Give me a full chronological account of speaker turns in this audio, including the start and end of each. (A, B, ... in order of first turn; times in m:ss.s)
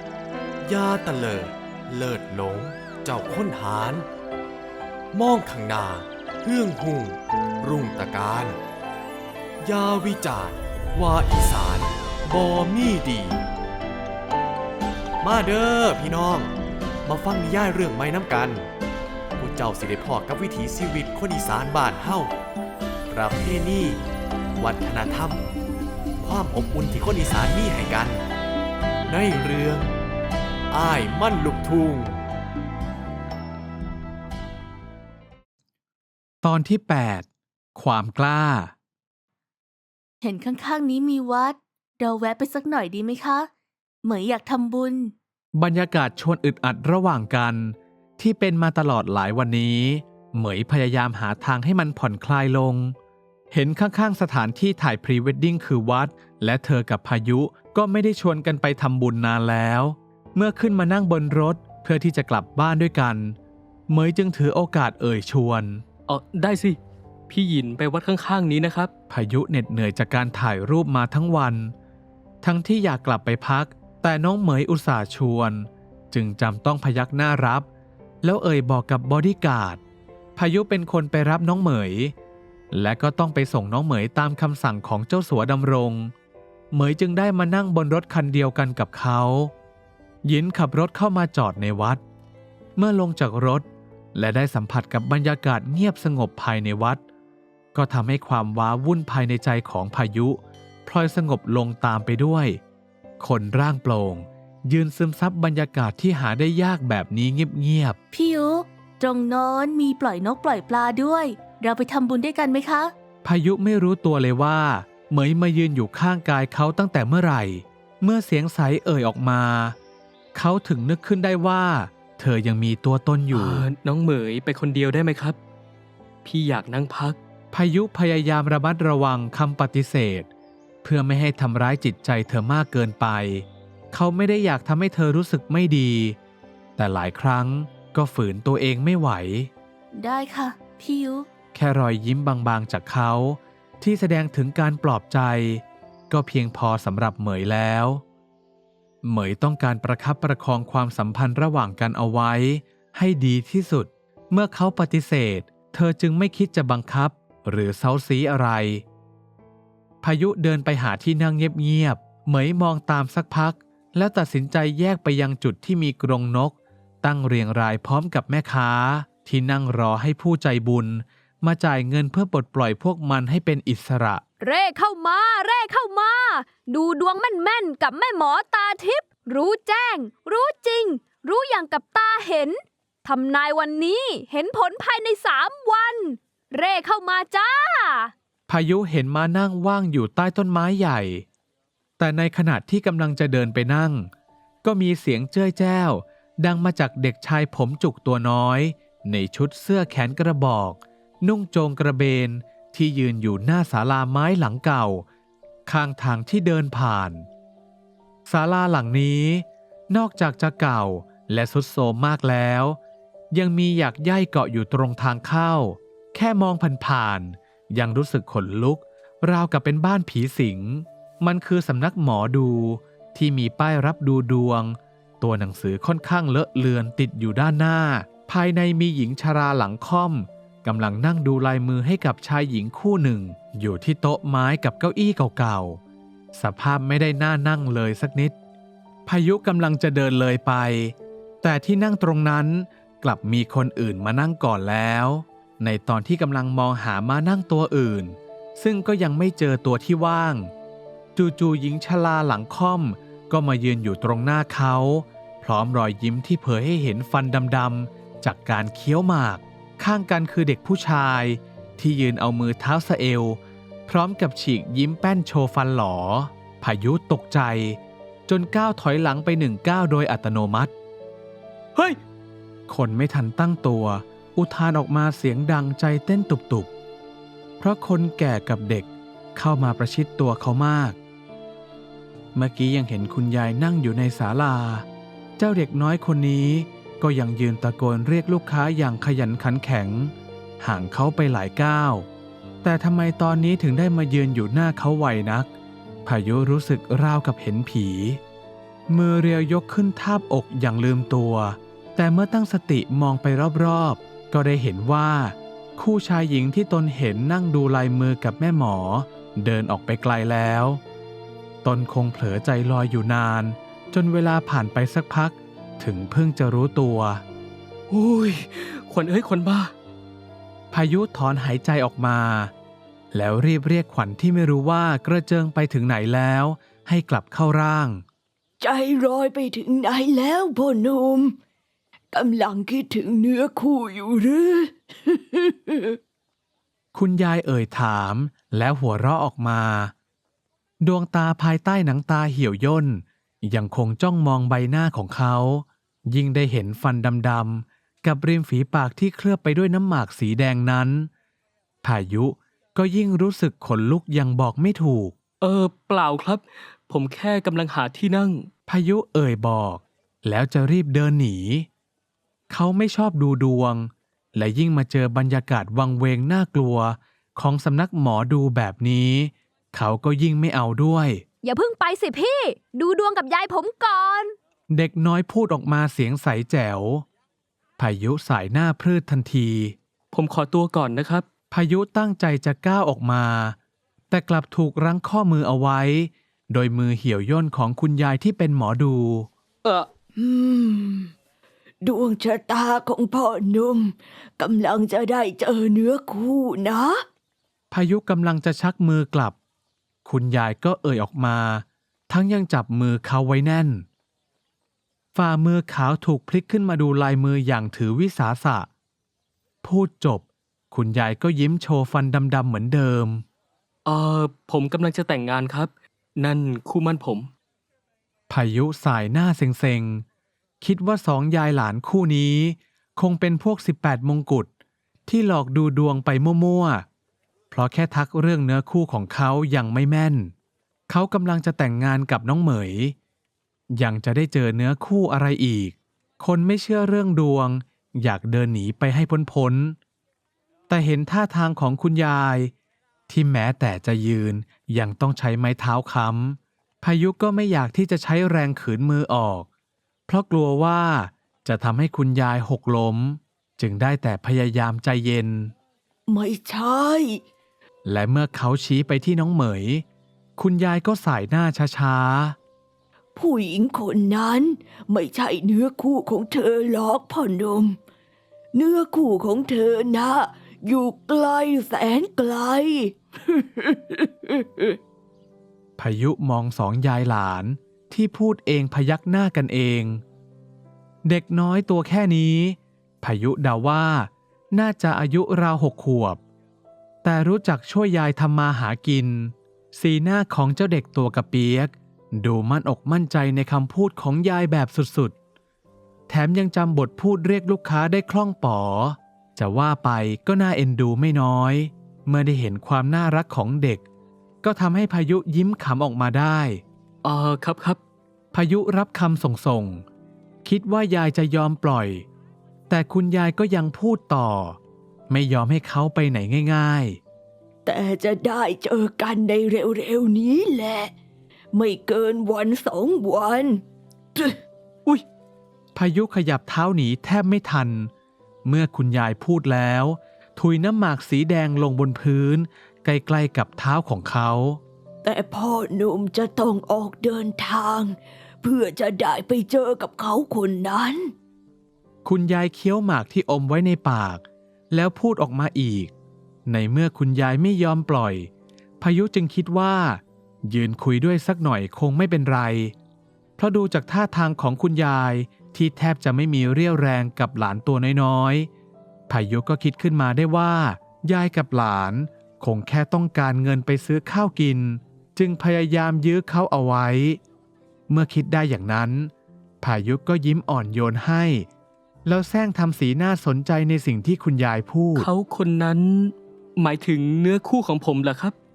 0:00.6-0:04.1 A
0:05.1-0:08.6 A
0:09.6-0:13.4 A
0:15.2-0:16.5 A
0:17.0-0:18.6 A
0:19.4-0:22.3 A
0:23.1-0:24.0 A
0:24.6-0:25.4 A
0:26.2-0:28.2 A
0:29.1-0:29.9 A
0:30.7-0:32.2 A
0:36.4-0:38.7 B
0:40.2-0:43.5 C
0:44.0-0:45.1 C
0:45.5-0:52.9 B
0:53.5-1:03.4 B
1:03.9-1:05.8 B
1:06.1-1:06.8 D
1:07.3-1:08.9 D
1:09.1-1:11.7 B
1:12.4-1:17.7 B
1:18.2-1:19.8 B
1:20.4-1:22.1 B
1:22.7-1:26.1 B
1:26.7-1:29.5 B
1:30.2-1:32.0 B
1:32.8-1:37.0 B
1:37.7-1:42.6 B
1:43.2-1:48.0 B
1:48.1-1:52.9 C
1:53.2-1:59.8 B
2:00.3-2:03.7 B
2:03.3-2:05.4 D
2:06.2-2:07.2 D
2:07.5-2:10.3 B
2:10.8-2:16.2 B
2:16.8-2:19.5 B
2:19.9-2:21.2 C
2:21.5-2:28.0 B
2:29.0-2:38.8 B
2:40.0-2:54.2 B
2:54.4-3:08.1 E
3:08.5-3:11.2 B
3:12.0-3:14.1 B
3:14.6-3:25.0 B
3:25.7-3:27.3 B
3:28.2-3:32.8 B
3:33.3-3:55.8 B
3:56.3-3:58.3 B
3:59.0-4:10.5 B
4:11.2-4:30.7 B
4:32.7-4:36.7 B
4:37.6-4:41.0 B
4:42.3-4:44.8 B
4:45.4-4:52.1 B
4:52.6-4:55.5 B
4:56.0-4:58.2 B
4:58.9-5:10.8 B
5:11.6-5:17.2 B
5:17.9-5:19.7 D
5:20.7-5:22.5 B
5:23.1-5:28.0 B
5:28.6-5:31.3 F
5:32.1-5:36.0 F
5:36.9-5:39.9 B
5:40.8-5:51.1 B
5:51.8-5:55.1 B
5:55.4-5:58.5 D
5:58.7-6:01.7 B
6:02.5-6:11.2 B
6:11.4-6:14.3 E
6:14.7-6:17.0 B
6:17.8-6:19.7 B
6:20.1-6:21.2 D
6:21.5-6:23.6 B
6:24.1-6:29.3 B
6:29.6-6:29.9 D
6:30.2-6:31.1 F
6:31.8-6:37.0 F
6:37.7-6:39.3 B
6:40.0-6:43.8 B
6:45.1-6:48.7 B
6:49.6-6:53.2 B
6:53.8-6:57.3 D
6:58.3-7:00.0 B
7:00.6-7:04.5 B
7:05.1-7:06.8 B
7:07.5-7:10.3 B
7:10.9-7:12.9 B
7:13.7-7:19.8 B
7:20.7-7:22.5 B
7:23.1-7:29.5 B
7:30.1-7:35.5 B
7:36.1-7:37.2 F
7:37.8-7:39.8 B
7:40.4-7:42.4 B
7:43.1-7:47.8 F
7:48.5-7:54.8 F
7:55.8-8:00.0 B
8:01.0-8:06.2 B
8:07.0-8:15.1 B
8:16.1-8:23.8 B
8:24.4-8:26.6 B
8:27.0-8:27.8 D
8:28.3-8:29.8 B
8:30.4-8:32.0 B
8:32.7-8:34.6 B
8:35.1-8:37.0 B
8:37.6-8:40.9 F
8:41.5-8:43.6 F
8:45.7-8:47.9 B
8:48.4-8:54.6 B
8:55.0-9:01.1 F
9:02.0-9:05.9 B
9:06.4-9:12.7 B
9:13.4-9:18.5 B
9:19.1-9:27.2 B
9:27.9-9:31.5 B
9:32.0-9:35.1 B
9:35.0-9:38.4 D